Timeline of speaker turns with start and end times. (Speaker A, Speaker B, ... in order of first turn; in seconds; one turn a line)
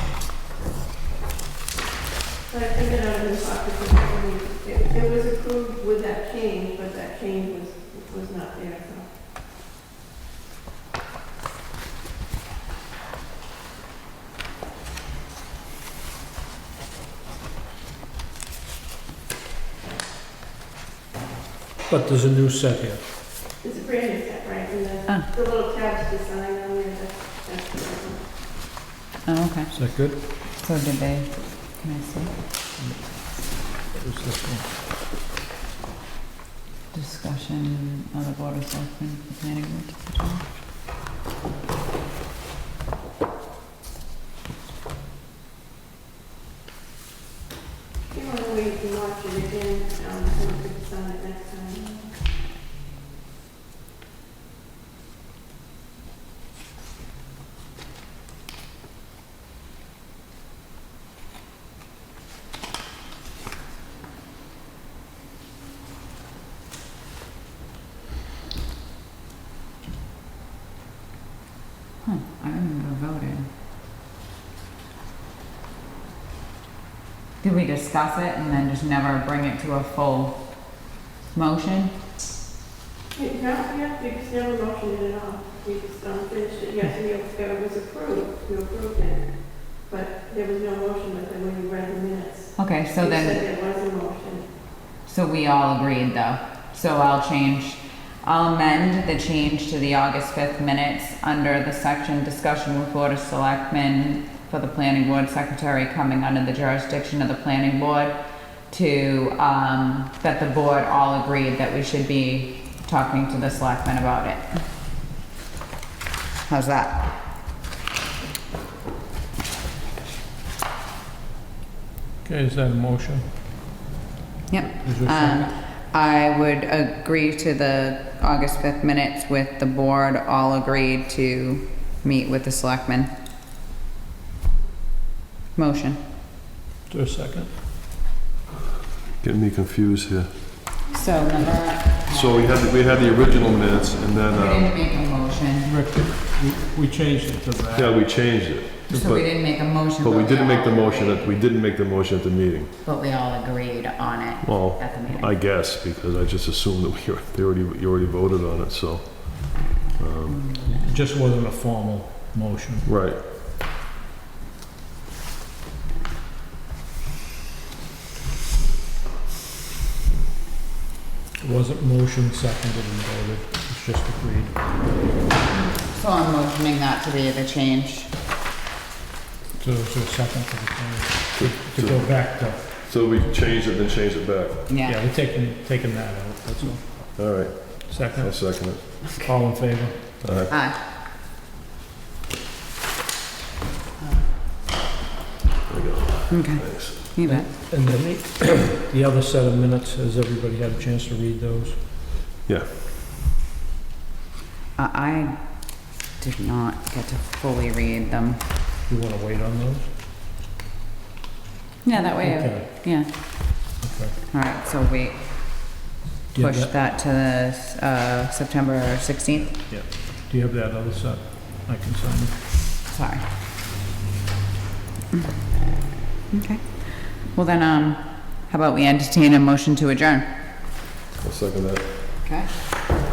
Speaker A: 2.5-9.1
Speaker B: 21.9-23.0
Speaker A: 23.6-28.3
Speaker C: 29.2-32.6
Speaker B: 29.7-30.2
Speaker B: 32.8-34.7
Speaker C: 36.9-40.5
Speaker A: 48.1-52.1
Speaker C: 72.0-73.5
Speaker C: 77.4-81.9
Speaker A: 83.1-94.5
Speaker C: 92.5-93.4
Speaker C: 95.0-108.2
Speaker C: 108.7-114.6
Speaker C: 116.5-117.0
Speaker B: 122.2-123.3
Speaker C: 124.5-133.1
Speaker B: 124.6-125.5
Speaker C: 135.5-136.0
Speaker B: 136.9-137.6
Speaker D: 139.2-140.4
Speaker C: 140.9-142.6
Speaker D: 142.1-144.7
Speaker C: 144.3-145.7
Speaker B: 145.6-148.1
Speaker D: 147.7-152.7
Speaker C: 148.9-151.3
Speaker C: 152.8-155.3
Speaker D: 154.4-160.5
Speaker C: 160.3-160.9
Speaker B: 160.7-162.8
Speaker D: 162.8-163.2
Speaker B: 171.4-174.7
Speaker C: 175.5-178.1
Speaker B: 179.6-182.7
Speaker D: 181.3-184.7
Speaker C: 184.7-185.0
Speaker B: 184.8-190.2
Speaker D: 187.2-189.1
Speaker D: 190.2-190.5
Speaker C: 190.5-190.8
Speaker C: 194.0-194.2
Speaker D: 195.7-197.0
Speaker C: 196.3-197.5
Speaker B: 197.2-201.8
Speaker C: 204.8-208.4
Speaker B: 208.9-209.9
Speaker C: 211.8-213.7
Speaker B: 211.9-214.2
Speaker C: 214.3-219.6
Speaker B: 216.3-216.7
Speaker B: 219.5-222.4
Speaker C: 222.9-223.2
Speaker C: 226.3-230.2
Speaker D: 231.2-231.9
Speaker C: 232.2-232.5